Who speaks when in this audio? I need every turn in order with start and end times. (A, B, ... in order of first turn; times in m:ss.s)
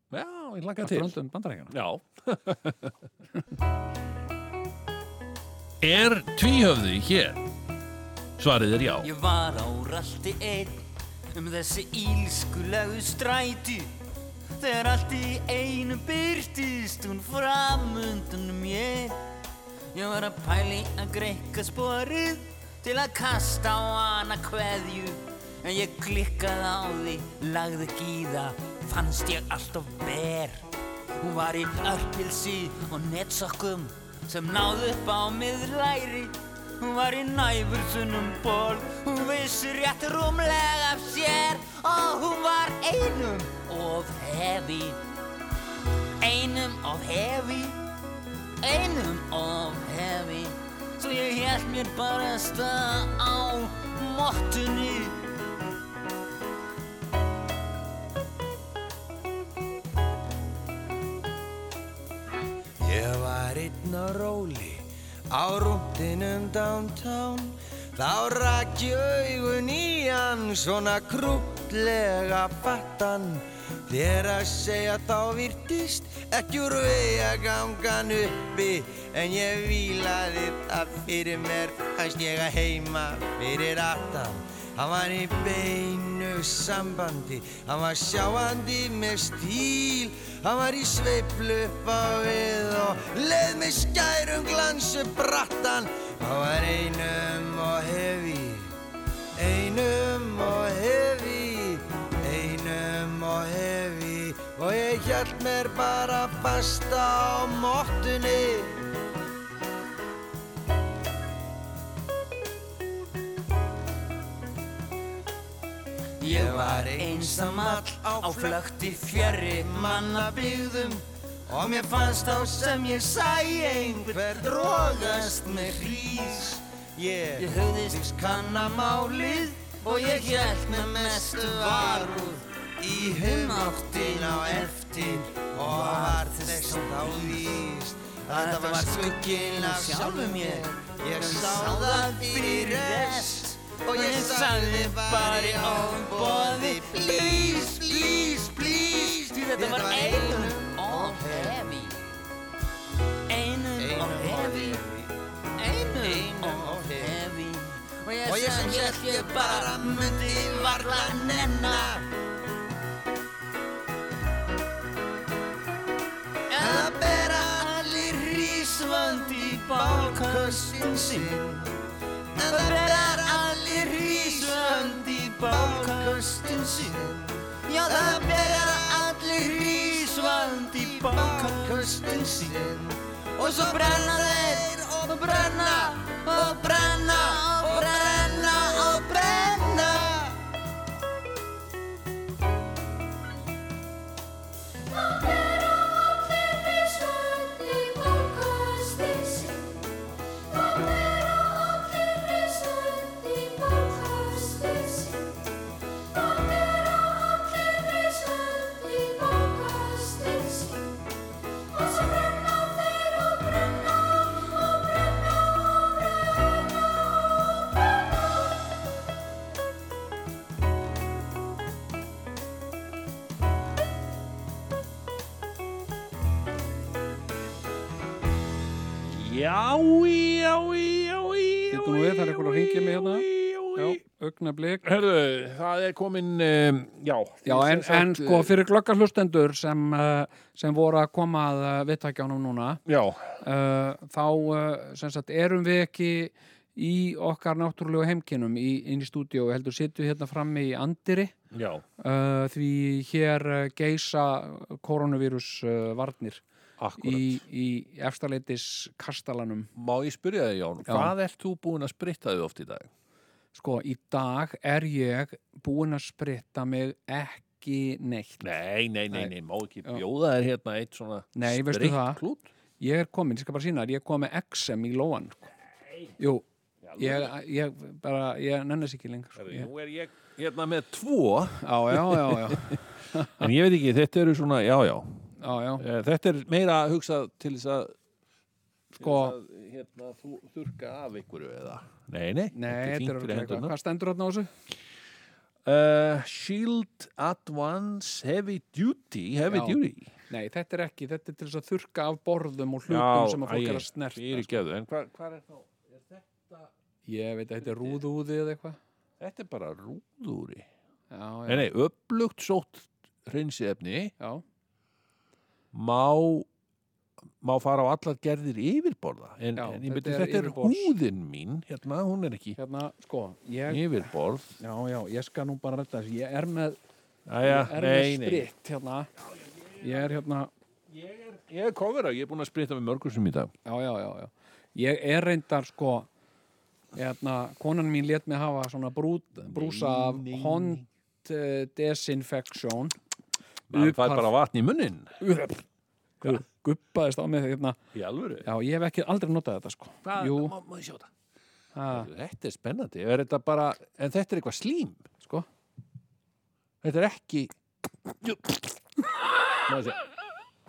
0:00.1-0:01.1 A
0:00.8-0:01.8 B
0:01.7-0:03.0 A
0:05.8-0:07.5 A
0:08.4-0:09.1 A
0:09.0-0:10.8 C
0:11.3-0:13.9 C
0:14.6-0:19.2 C
0:19.9-0:30.6 C
0:31.2-0:45.0 C
0:46.2-0:47.8 C
0:48.6-0:55.2 C
1:02.8-1:38.7 D
1:39.4-1:48.8 D
1:56.2-2:00.7 C
1:56.2-2:32.0 D
2:01.6-2:06.5 C
2:07.4-2:17.6 C
2:18.3-2:32.0 C
2:33.3-2:34.8 C
2:33.8-2:35.1 D
2:35.6-2:42.0 C
2:35.9-2:37.2 D
2:38.2-2:42.0 D
2:46.5-2:51.4 C
2:46.5-2:48.7 D
2:49.4-2:51.8 D
2:52.4-3:10.4 D
2:52.4-2:57.1 C
2:57.6-3:02.6 C
3:03.4-3:10.0 C
3:14.9-3:19.8 E
3:20.5-3:25.6 E
3:26.1-3:31.0 E
3:31.7-3:37.6 E
3:49.1-3:54.0 A
3:51.7-3:54.9 B
3:54.8-3:58.5 A
3:57.4-4:02.8 B
4:02.9-4:03.4 A
4:03.4-4:11.3 B
4:11.5-4:11.8 A
4:12.0-4:16.4 B
4:16.8-4:17.4 A
4:17.0-4:19.7 B
4:19.8-4:22.9 A
4:20.8-4:21.1 B
4:23.5-4:28.4 B
4:28.4-4:32.5 A
4:31.4-4:32.2 B
4:32.8-4:35.5 B
4:36.2-4:36.4 B
4:36.8-4:37.3 A
4:37.0-4:39.7 B
4:39.4-4:47.9 A
4:41.6-4:43.5 B
4:45.4-4:45.8 B
4:48.9-4:53.7 A
4:49.0-4:49.4 B
4:52.5-4:54.5 B
4:55.6-5:00.2 A
4:59.5-4:59.8 B
5:00.3-5:04.6 B
5:02.9-5:06.7 A
5:07.1-5:08.8 B
5:07.6-5:08.0 A
5:09.2-5:10.7 A
5:11.1-5:11.7 B
5:11.5-5:14.1 A
5:15.7-5:16.5 A
5:17.4-5:22.6 A
5:19.6-5:20.9 B
5:22.6-5:26.8 B
5:23.7-5:24.6 A
5:27.3-5:28.5 A
5:27.4-5:29.1 B
5:29.4-5:30.0 A
5:29.8-5:30.5 B
5:30.9-5:33.5 A
5:33.6-5:36.1 B
5:37.0-5:43.0 B
5:39.4-5:40.9 A
5:43.7-5:45.2 A
5:43.7-5:44.3 B
5:45.2-5:45.6 B
5:46.2-5:47.8 B
5:47.9-5:48.5 A
5:48.4-5:50.5 B
5:50.0-5:51.1 A
5:51.8-5:52.1 B
5:51.9-5:55.1 A
5:56.8-5:58.8 A
5:59.7-6:00.0 A